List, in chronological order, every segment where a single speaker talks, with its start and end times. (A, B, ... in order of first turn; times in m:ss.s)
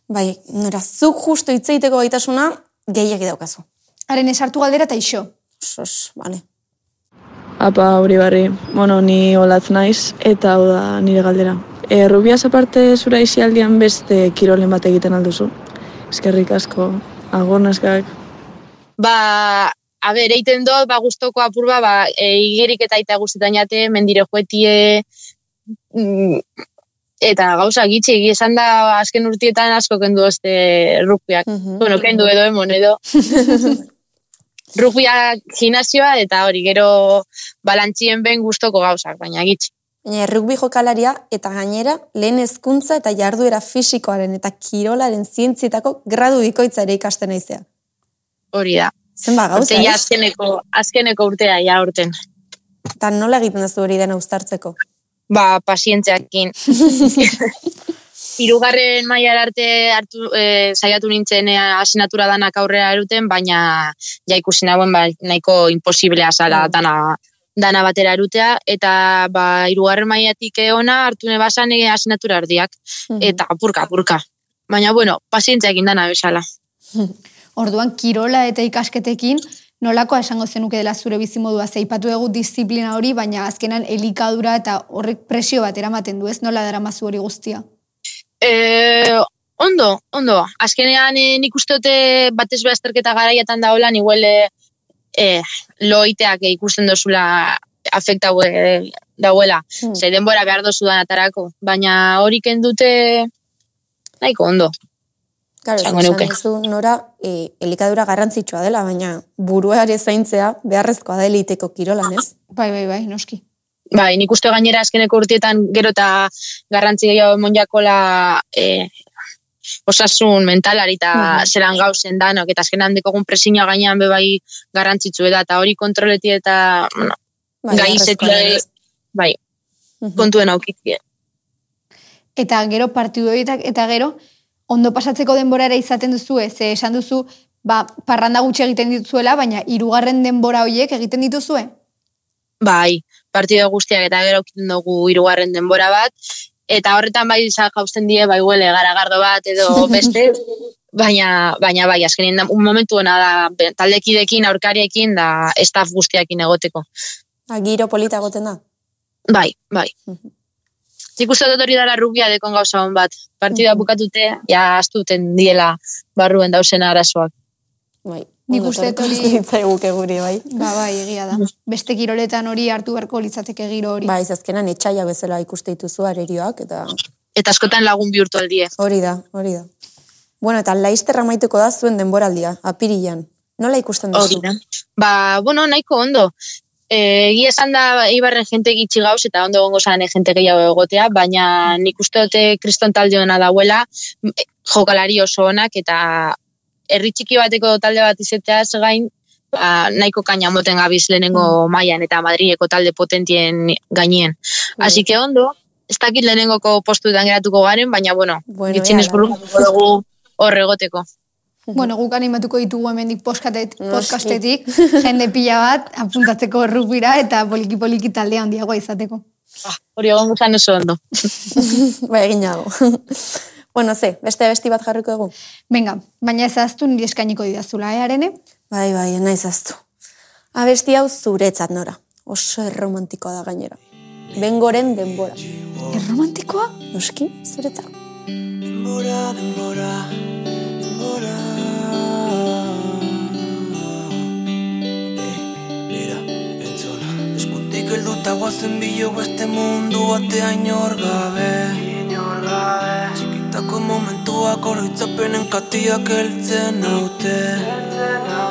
0:00.1-0:03.6 A
0:04.1-0:05.3 B
0:05.6-0:06.4 A
0:07.6-0:15.5 C
0:16.1-0:18.1 C
0:19.0-0:25.0 D
0:26.0-0:26.4 D
0:27.2-0:33.0 D
0:31.5-0:31.9 A
0:33.3-0:33.8 B
0:33.5-0:33.8 A
0:34.8-0:39.7 D
0:40.0-0:47.6 A
0:48.5-0:48.9 D
0:49.2-0:50.0 A
0:49.6-0:52.1 D
0:53.0-0:54.8 A
0:55.3-0:57.4 D
0:56.8-0:57.2 A
0:58.4-1:16.4 D
1:06.5-1:06.8 A
1:13.1-1:13.4 A
1:17.6-1:27.6 B
1:28.4-1:34.5 D
1:35.2-1:43.3 D
1:44.2-1:44.7 D
1:45.6-1:52.3 A
1:45.8-1:46.3 D
1:52.5-1:53.4 B
1:53.9-1:58.9 D
1:59.9-2:07.2 D
2:01.1-2:01.5 A
2:07.6-2:08.6 A
2:07.7-2:08.6 D
2:10.0-2:10.3 A
2:10.2-2:11.0 D
2:12.4-2:14.2 B
2:14.7-2:21.7 B
2:22.6-2:26.1 D
2:26.7-2:30.4 D
2:31.0-2:36.8 D
2:37.5-2:38.6 A
2:39.3-2:39.9 D
2:41.2-2:47.3 D
2:43.5-2:43.8 A
2:48.0-2:50.5 A
2:48.5-2:49.4 B
2:50.5-2:54.1 B
2:54.0-2:57.0 A
2:57.4-2:58.7 D
2:58.8-2:59.7 A
3:00.4-3:04.4 A
3:04.2-3:06.3 D
3:06.9-3:16.4 D
3:16.9-3:31.0 D
3:24.8-3:25.0 A
3:28.5-3:29.3 A
3:31.7-3:39.2 B
3:33.8-3:34.8 A
3:39.7-3:41.0 D
3:41.6-3:45.3 A
3:45.7-3:48.4 B
3:48.7-3:49.8 A
3:50.6-3:53.8 A
3:54.3-3:55.4 A
3:55.9-3:56.7 B
3:56.9-3:57.9 A
3:58.7-4:00.1 E
4:00.9-4:03.1 E
4:05.2-4:17.8 E